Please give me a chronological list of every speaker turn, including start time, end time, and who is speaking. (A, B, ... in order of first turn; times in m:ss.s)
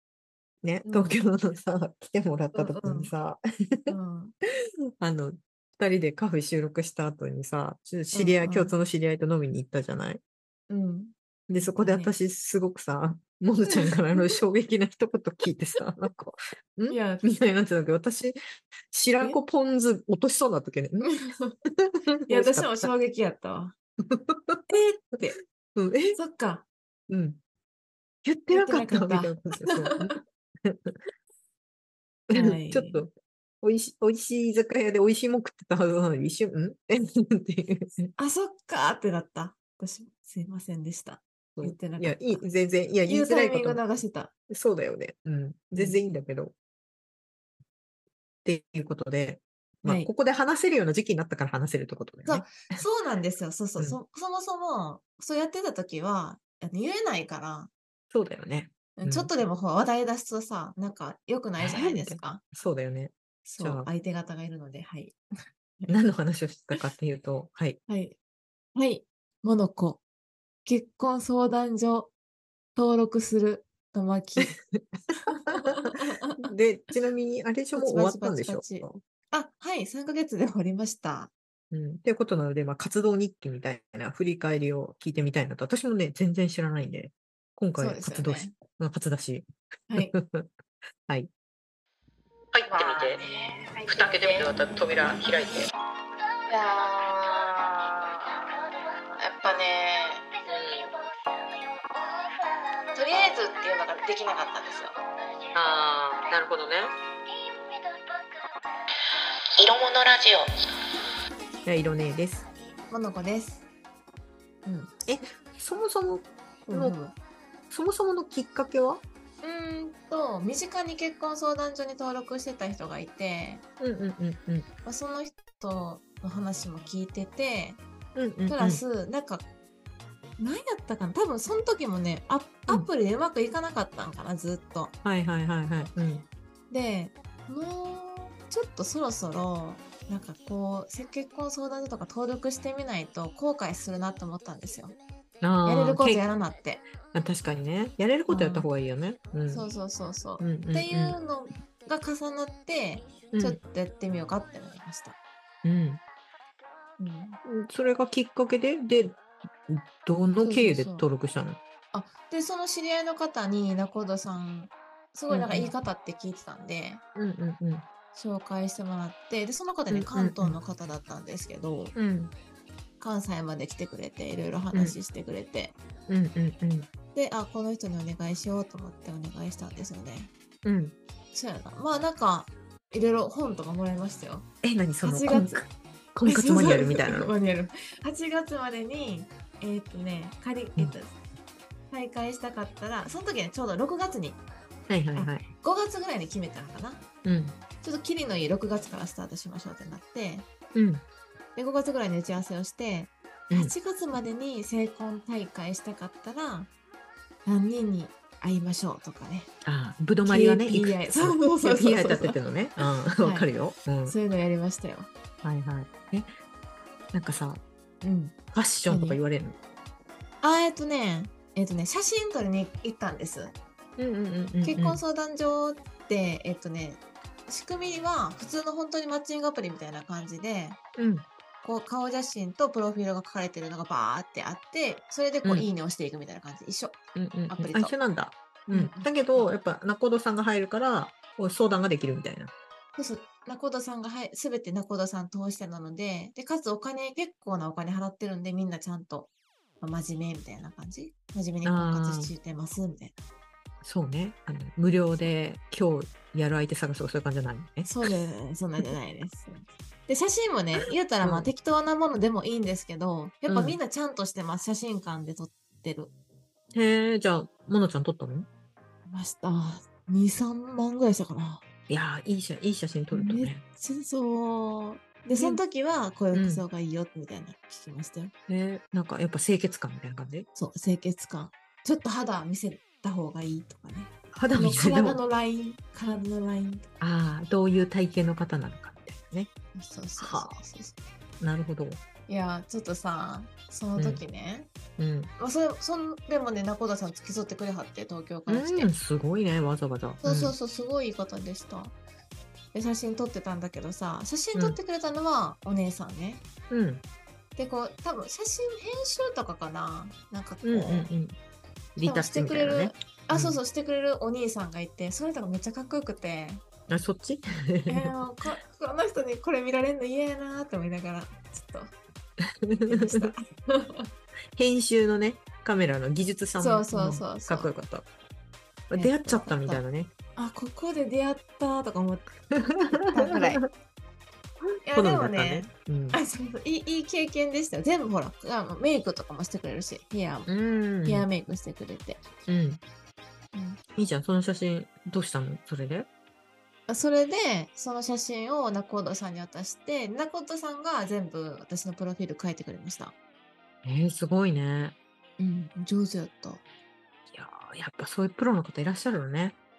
0:00.6-0:03.9 A
0:00.9-0:01.2 B
0:02.5-0:03.1 B
0:03.9-0:04.3 B
0:05.0-0:10.2 A
0:08.1-0:08.7 B
0:10.7-0:11.1 B
0:11.5-0:18.4 A
0:11.8-0:12.1 B
0:16.9-0:17.2 B
0:18.9-0:21.1 A
0:21.0-0:21.5 B
0:21.8-0:22.9 A
0:22.3-0:23.7 B
0:24.0-0:24.6 A
0:24.7-0:25.4 B
0:25.8-0:26.2 A
0:26.2-0:26.6 B
0:27.1-0:27.4 A
0:28.2-0:31.0 A
0:28.5-0:30.2 B
0:32.3-0:33.1 A
0:32.3-0:33.0 B
0:33.6-0:38.1 A
0:38.2-0:42.4 B
0:41.6-0:43.8 A
0:43.1-0:44.3 B
0:44.5-0:46.5 A
0:45.8-0:46.0 B
0:48.4-0:52.8 A
0:49.8-0:50.1 B
0:52.3-0:57.7 B
0:58.1-0:59.3 A
0:59.0-1:02.4 B
1:01.6-1:03.9 A
1:03.5-1:05.2 B
1:05.9-1:07.8 A
1:07.9-1:08.2 B
1:08.8-1:10.0 B
1:10.7-1:12.1 B
1:12.8-1:14.6 B
1:14.4-1:19.0 A
1:15.3-1:16.5 B
1:17.8-1:21.3 B
1:21.7-1:30.5 A
1:27.8-1:28.6 B
1:32.5-1:33.2 A
1:32.7-1:34.5 B
1:33.9-1:35.7 A
1:36.5-1:38.5 B
1:39.1-1:40.3 B
1:40.4-1:40.9 A
1:42.9-1:45.0 B
1:45.6-1:46.9 A
1:49.6-1:50.5 A
1:51.7-1:52.5 A
1:52.9-1:53.6 B
1:54.6-1:54.9 B
1:55.1-1:57.0 A
1:56.7-1:57.1 B
1:57.7-1:59.0 A
1:59.4-2:03.6 B
2:03.8-2:04.7 A
2:04.8-2:07.8 B
2:08.2-2:08.8 A
2:08.5-2:09.4 B
2:10.4-2:14.9 B
2:15.0-2:16.3 A
2:16.7-2:25.0 B
2:25.4-2:26.2 A
2:25.6-2:26.8 B
2:27.1-2:29.7 A
2:28.3-2:28.7 B
2:29.5-2:35.2 B
2:30.4-2:31.2 A
2:33.3-2:33.6 A
2:35.6-2:36.0 A
2:37.0-2:37.4 B
2:37.5-2:41.6 A
2:40.4-2:41.1 B
2:41.9-2:47.0 B
2:45.3-2:45.7 A
2:47.2-2:47.9 A
2:48.1-2:51.9 B
2:49.9-2:50.6 A
2:52.0-2:52.3 A
2:53.0-2:55.8 B
2:54.7-2:55.0 A
2:56.1-2:56.9 A
2:57.1-3:00.3 B
3:00.6-3:01.0 A
3:01.3-3:04.5 B
3:04.6-3:07.3 A
3:05.0-3:05.6 B
3:06.2-3:11.1 B
3:11.9-3:14.4 B
3:14.9-3:15.5 A
3:15.2-3:17.0 B
3:17.2-3:17.6 A
3:17.8-3:20.5 B
3:20.7-3:21.0 A
3:21.6-3:26.7 B
3:27.5-3:29.5 B
3:29.6-3:34.2 A
3:30.3-3:32.4 B
3:33.2-3:33.5 B
3:34.1-3:35.1 B
3:35.4-3:36.3 A
3:37.1-3:37.6 A
3:38.0-3:39.2 B
3:38.5-3:39.6 A
3:40.4-3:43.6 B
3:44.0-3:45.0 A
3:44.6-3:50.8 B
3:51.0-3:51.3 A
3:51.6-3:57.0 B
3:57.2-4:02.5 A
3:57.5-3:57.9 B
3:58.7-3:59.5 B
4:03.0-4:09.3 B
4:09.8-4:13.1 B
4:11.6-4:12.3 A
4:13.8-4:18.1 A
4:17.8-4:26.1 B
4:21.2-4:21.5 A
4:23.5-4:23.8 A
4:26.7-4:28.5 A
4:29.1-4:31.6 B
4:31.9-4:33.6 A
4:33.1-4:38.3 B
4:35.4-4:35.6 A
4:36.3-4:36.6 A
4:38.5-4:40.5 A
4:40.6-4:46.9 B
4:44.3-4:45.2 A
4:47.0-4:49.5 A
4:49.8-4:51.1 B
4:50.2-4:50.5 A
4:51.4-4:52.0 A
4:52.3-4:54.7 B
4:54.0-4:54.2 A
4:55.0-4:55.3 A
4:55.4-4:58.9 B
4:58.5-5:00.6 A
5:00.2-5:02.0 B
5:02.7-5:06.4 B
5:06.7-5:07.0 A
5:07.6-5:11.1 B
5:10.6-5:11.4 A
5:12.0-5:13.6 A
5:12.0-5:16.6 B
5:16.9-5:18.2 A
5:17.9-5:21.9 B
5:22.6-5:23.3 A
5:22.9-5:24.1 B
5:24.6-5:28.1 A
5:26.6-5:27.7 B
5:28.9-5:30.1 A
5:28.9-5:29.8 B
5:30.4-5:32.3 B
5:32.5-5:33.7 A
5:32.9-5:33.6 B
5:34.6-5:36.2 A
5:34.9-5:40.5 B
5:40.5-5:41.3 A
5:41.0-5:42.2 B
5:42.5-5:42.8 A
5:43.5-5:43.8 B
5:44.0-5:46.1 A
5:46.9-5:53.1 B
5:53.8-5:55.0 A
5:55.4-5:56.6 B
5:57.3-5:59.6 A